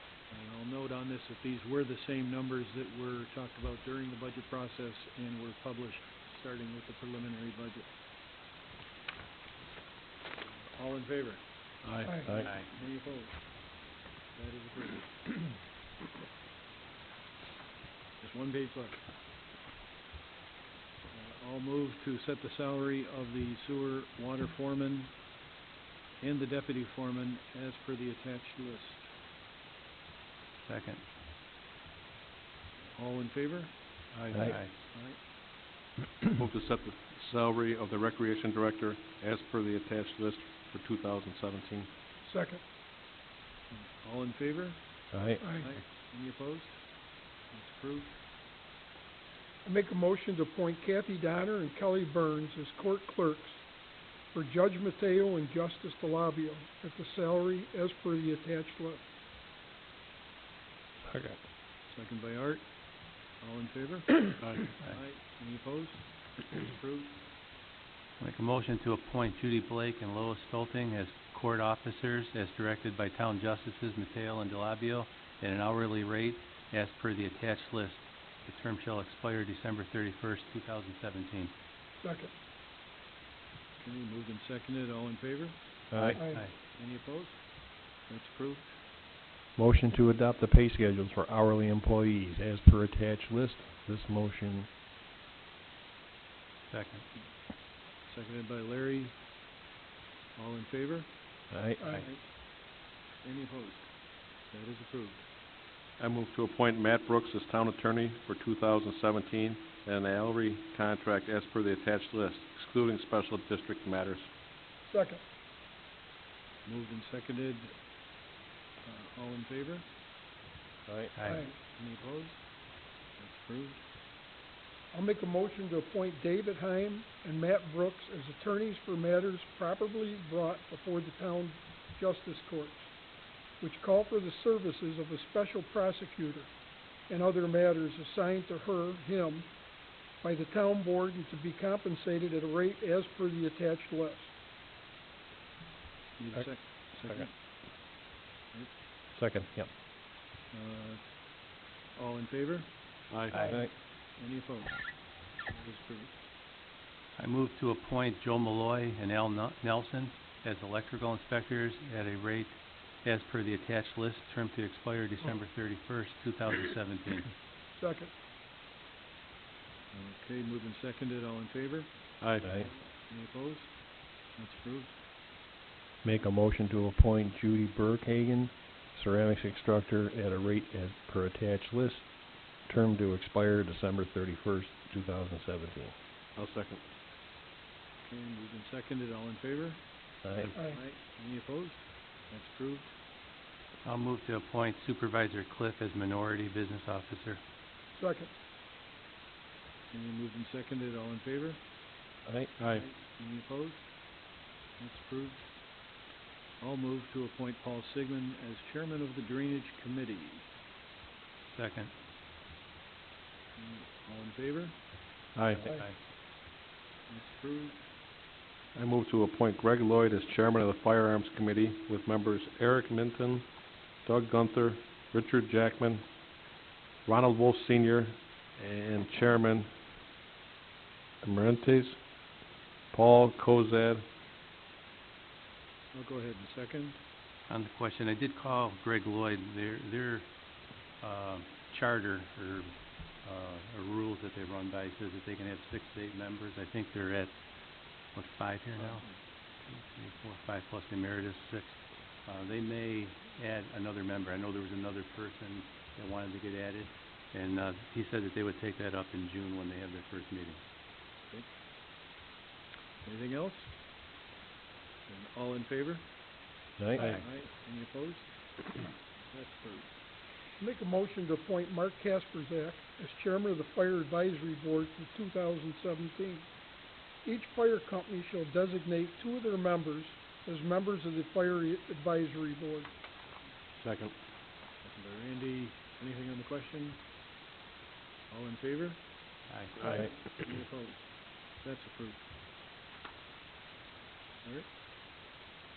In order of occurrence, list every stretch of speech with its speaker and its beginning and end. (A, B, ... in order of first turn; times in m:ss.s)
0:00.3-0:07.9 A
0:10.7-0:11.4 A
0:11.8-0:12.1 B
0:12.0-0:12.3 C
0:12.4-0:13.4 A
0:12.4-0:12.7 D
0:14.3-0:15.5 A
0:18.2-0:19.0 A
0:21.1-0:25.1 A
0:26.2-0:29.1 A
0:30.6-0:31.0 D
0:32.9-0:35.2 A
0:34.3-0:34.6 E
0:34.4-0:34.7 D
0:36.4-0:41.9 B
0:42.2-0:42.6 C
0:43.7-0:44.8 A
0:45.1-0:45.4 E
0:45.4-0:45.7 C
0:45.5-0:46.8 A
0:47.5-0:48.2 A
0:49.6-0:53.6 C
0:54.3-0:59.0 C
1:01.1-1:01.4 E
1:01.9-1:02.6 A
1:03.4-1:07.2 A
1:08.2-1:21.5 D
1:22.0-1:22.3 C
1:23.8-1:26.2 A
1:25.9-1:26.2 E
1:26.0-1:26.4 C
1:26.3-1:26.5 D
1:26.7-1:27.5 A
1:28.1-1:28.8 A
1:29.6-1:34.7 E
1:36.7-1:37.0 D
1:38.1-1:39.1 A
1:40.3-1:41.1 A
1:41.5-1:41.8 E
1:41.9-1:42.2 A
1:43.2-1:43.9 A
1:44.5-1:45.2 A
1:46.0-1:54.3 B
1:54.9-1:55.2 C
1:56.6-1:57.7 A
1:58.8-1:59.8 A
2:00.8-2:01.1 E
2:01.2-2:01.4 D
2:01.4-2:02.4 A
2:03.2-2:03.8 A
2:04.9-2:12.9 C
2:13.6-2:16.5 C
2:17.1-2:19.5 C
2:20.2-2:24.3 C
2:26.2-2:27.3 A
2:29.1-2:29.7 E
2:30.5-2:31.0 A
2:31.9-2:32.7 A
2:33.1-2:33.4 B
2:33.3-2:33.7 E
2:34.2-2:34.8 A
2:35.5-2:36.1 A
2:37.2-2:47.3 D
2:47.8-2:48.1 C
2:49.9-2:51.9 A
2:52.2-2:52.5 B
2:52.6-2:53.7 A
2:54.3-2:55.0 A
2:56.0-3:02.0 E
3:02.7-3:05.9 E
3:06.4-3:06.8 B
3:08.0-3:09.8 A
3:10.2-3:10.5 E
3:10.4-3:12.9 A
3:13.8-3:17.4 D
3:18.0-3:18.3 C
3:19.9-3:21.6 A
3:22.2-3:22.5 E
3:22.6-3:22.8 B
3:22.6-3:23.9 A
3:24.8-3:25.4 A
3:26.6-3:30.4 A
3:31.5-3:31.9 D
3:33.6-3:34.8 A
3:35.4-3:35.7 B
3:35.5-3:35.9 D
3:37.1-3:37.8 A
3:38.7-3:43.4 B
3:44.0-3:46.0 B
3:47.0-3:49.7 B
3:51.2-3:52.0 B
3:52.9-3:54.0 B
3:55.9-3:57.0 A
3:57.5-4:00.3 D
4:01.0-4:07.3 D
4:08.1-4:09.0 D
4:09.6-4:20.6 D
4:23.0-4:23.7 A
4:25.1-4:26.0 A
4:26.8-4:27.2 E
4:27.0-4:27.2 D
4:27.0-4:29.9 A
4:30.6-4:36.5 C
4:37.2-4:42.9 C
4:43.8-4:44.1 B
4:44.8-4:47.0 A
4:48.3-4:49.0 A
4:49.5-4:49.8 D
4:49.8-4:51.0 A
4:49.8-4:50.1 E
4:51.6-4:52.2 A